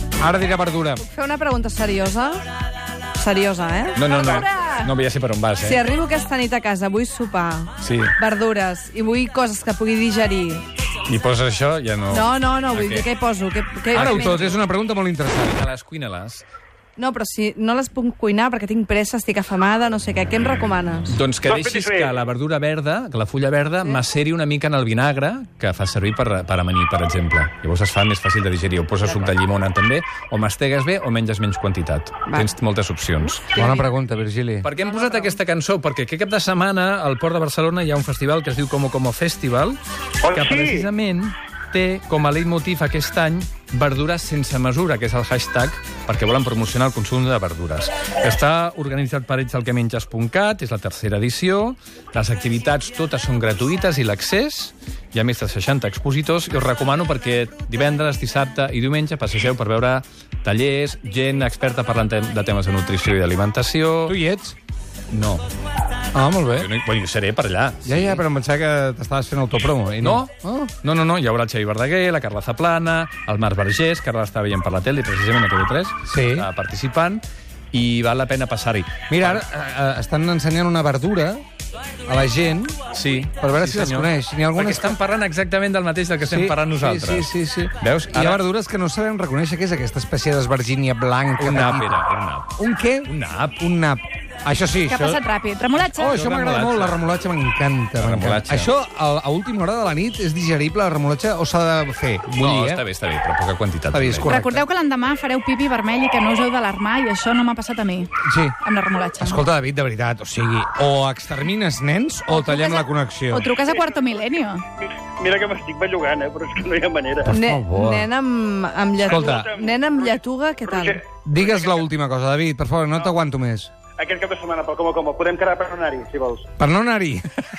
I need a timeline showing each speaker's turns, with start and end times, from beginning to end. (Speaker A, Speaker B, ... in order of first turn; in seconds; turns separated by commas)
Speaker A: 0.2-1.0, Speaker B: 1.0-2.4, Speaker B: 3.1-4.5, Speaker C: 3.9-5.8, Speaker D: 4.1-4.9, Speaker B: 5.6-10.6, Speaker C: 7.8-8.1, Speaker C: 11.1-13.1, Speaker B: 12.1-14.6, Speaker A: 13.9-15.6, Speaker C: 13.9-14.5, Speaker C: 15.4-16.4, Speaker B: 17.0-21.1, Speaker C: 21.1-33.5, Speaker E: 21.4-22.2, Speaker A: 33.5-34.7, Speaker C: 34.6-39.8, Speaker E: 40.2-40.9, Speaker C: 40.3-64.2, Speaker A: 64.1-64.5, Speaker C: 65.1-65.5, Speaker A: 66.1-66.7, Speaker C: 66.5-68.2, Speaker A: 67.8-70.7, Speaker C: 70.0-79.4, Speaker A: 76.1-76.5, Speaker A: 79.1-81.4, Speaker A: 82.0-82.8, Speaker C: 82.9-88.4, Speaker A: 83.4-85.0, Speaker A: 86.2-92.0, Speaker C: 91.4-93.6, Speaker A: 92.6-95.2, Speaker D: 94.8-96.2, Speaker A: 95.9-102.8, Speaker C: 96.0-97.1, Speaker C: 98.0-98.7, Speaker C: 102.3-104.4, Speaker A: 103.9-104.6, Speaker D: 104.2-109.4, Speaker A: 108.2-108.5, Speaker A: 109.2-113.5, Speaker D: 112.3-114.6, Speaker E: 113.6-117.3, Speaker A: 117.2-118.1, Speaker B: 117.3-121.0, Speaker E: 119.0-121.8, Speaker A: 119.1-119.5, Speaker A: 121.2-123.7, Speaker E: 124.0-126.4, Speaker A: 126.6-127.3